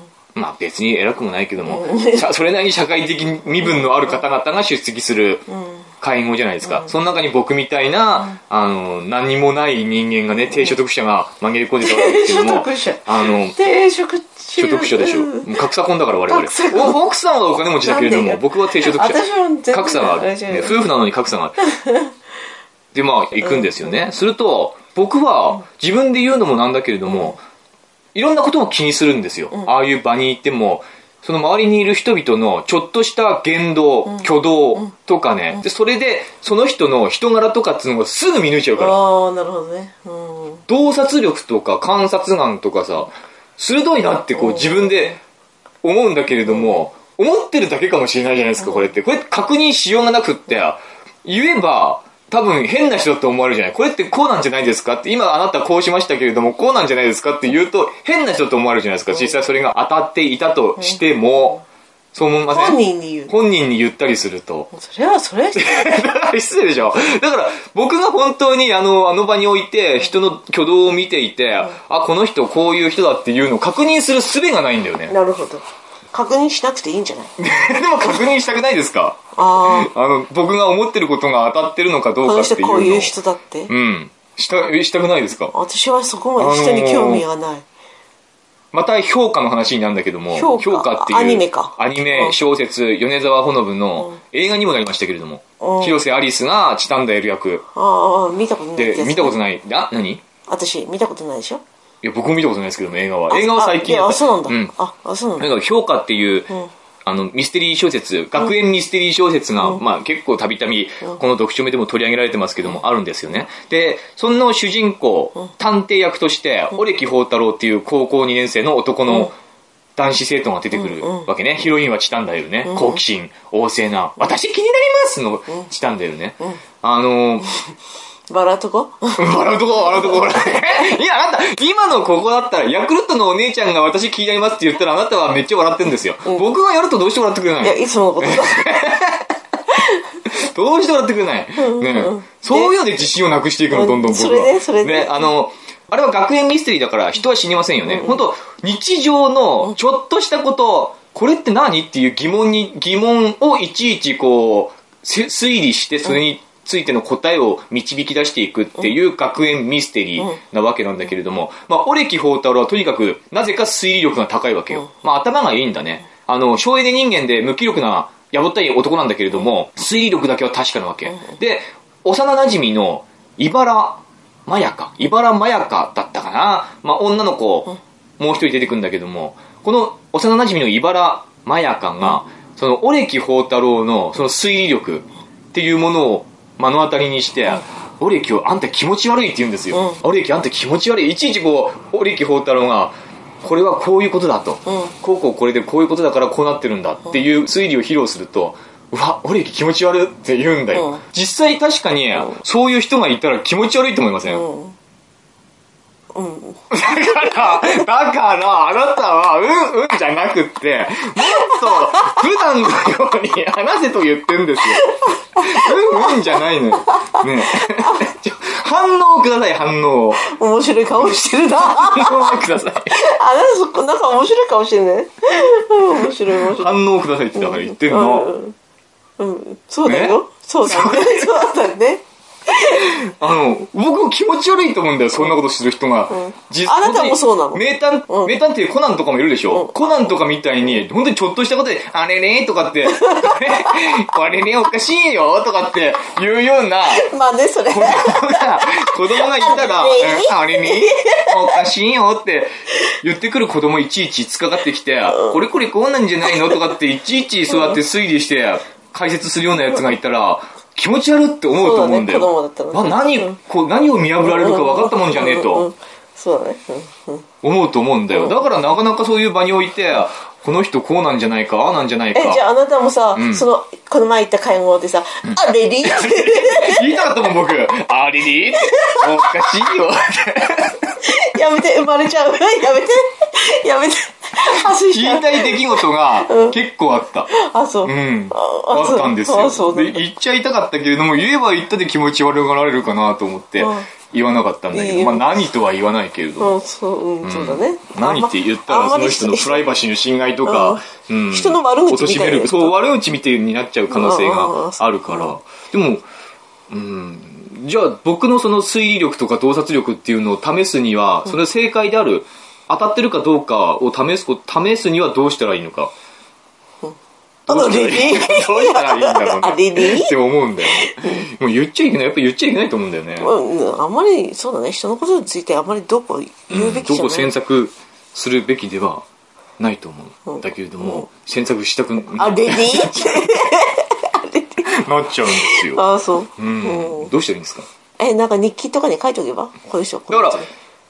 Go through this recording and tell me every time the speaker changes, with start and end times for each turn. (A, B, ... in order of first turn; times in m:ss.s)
0:00.4-0:05.5 A
0:01.6-0:02.3 B
0:03.7-0:04.2 B
0:05.5-0:05.8 B
0:06.0-0:13.6 A
0:06.6-0:06.9 B
0:11.8-0:15.6 B
0:14.6-0:21.6 A
0:16.3-0:17.0 B
0:17.8-0:20.8 B
0:21.6-0:22.1 B
0:22.9-0:27.4 A
0:23.4-0:24.0 B
0:27.1-0:27.3 B
0:28.2-0:39.0 A
0:34.1-0:34.9 B
0:38.8-0:40.6 B
0:40.7-0:45.2 A
0:44.4-0:45.2 B
0:45.8-1:01.6 A
0:46.5-0:46.8 B
0:48.6-0:48.9 B
1:00.8-1:01.6 B
1:02.1-1:04.7 A
1:02.5-1:03.3 B
1:04.7-1:06.0 B
1:05.6-1:15.2 A
1:15.1-1:17.3 B
1:17.4-1:23.2 A
1:19.4-1:19.9 B
1:22.2-1:23.7 B
1:23.7-1:25.5 A
1:25.5-1:27.6 B
1:26.4-1:27.2 A
1:28.7-1:37.6 A
1:30.3-1:32.4 B
1:35.6-1:36.0 B
1:37.7-1:39.4 B
1:38.8-1:40.2 A
1:40.5-1:41.6 B
1:42.0-1:44.7 A
1:43.3-1:45.5 B
1:45.4-1:46.5 A
1:47.1-1:59.3 A
2:00.0-2:07.5 A
2:00.7-2:01.3 B
2:02.7-2:03.0 B
2:08.3-2:10.9 B
2:09.2-2:19.3 A
2:17.6-2:18.8 B
2:19.7-2:20.0 B
2:20.3-3:24.5 A
2:21.6-2:22.7 B
2:23.7-2:25.3 B
2:27.9-2:28.2 B
3:09.7-3:10.0 B
3:14.7-3:14.9 B
3:20.7-3:21.0 B
3:24.3-3:24.8 B
3:26.1-3:27.9 B
3:26.7-3:40.3 A
3:31.2-3:32.2 B
3:34.7-3:36.4 B
3:37.0-3:38.0 B
3:40.2-3:46.8 B
3:40.9-3:43.0 A
3:46.4-3:48.3 A
3:47.4-3:48.6 B
3:49.2-3:53.0 B
3:49.8-3:51.5 A
3:52.6-4:07.1 A
3:56.1-3:58.4 B
3:59.5-4:00.0 B
4:03.1-4:04.0 B
4:06.9-4:11.6 B
4:07.7-4:25.7 A
4:15.1-4:15.4 B
4:16.3-4:16.7 B
4:17.5-4:17.8 B
4:21.5-4:23.4 B
4:24.2-4:27.3 B
4:27.4-4:32.4 A
4:28.1-4:28.4 B
4:32.2-4:37.2 B
4:33.2-4:33.5 A
4:35.2-4:41.0 A
4:38.6-4:39.5 B
4:41.0-4:46.6 B
4:44.5-4:47.3 A
4:47.3-4:50.0 B
4:47.8-4:56.6 A
4:53.6-4:53.9 B
4:54.7-4:55.4 B
4:56.4-4:59.7 B
4:57.2-5:06.0 A
5:00.4-5:02.8 B
5:03.9-5:05.4 B
5:06.7-5:15.9 A
5:17.5-5:23.3 A
5:17.5-5:21.3 B
5:23.2-5:27.3 B
5:26.5-5:29.0 A
5:29.6-5:33.4 A
5:30.3-5:31.1 B
5:32.1-5:34.7 B
5:34.6-5:35.8 A
5:35.3-5:37.1 B
5:36.4-5:37.7 A
5:38.0-5:40.5 B
5:40.1-5:40.5 A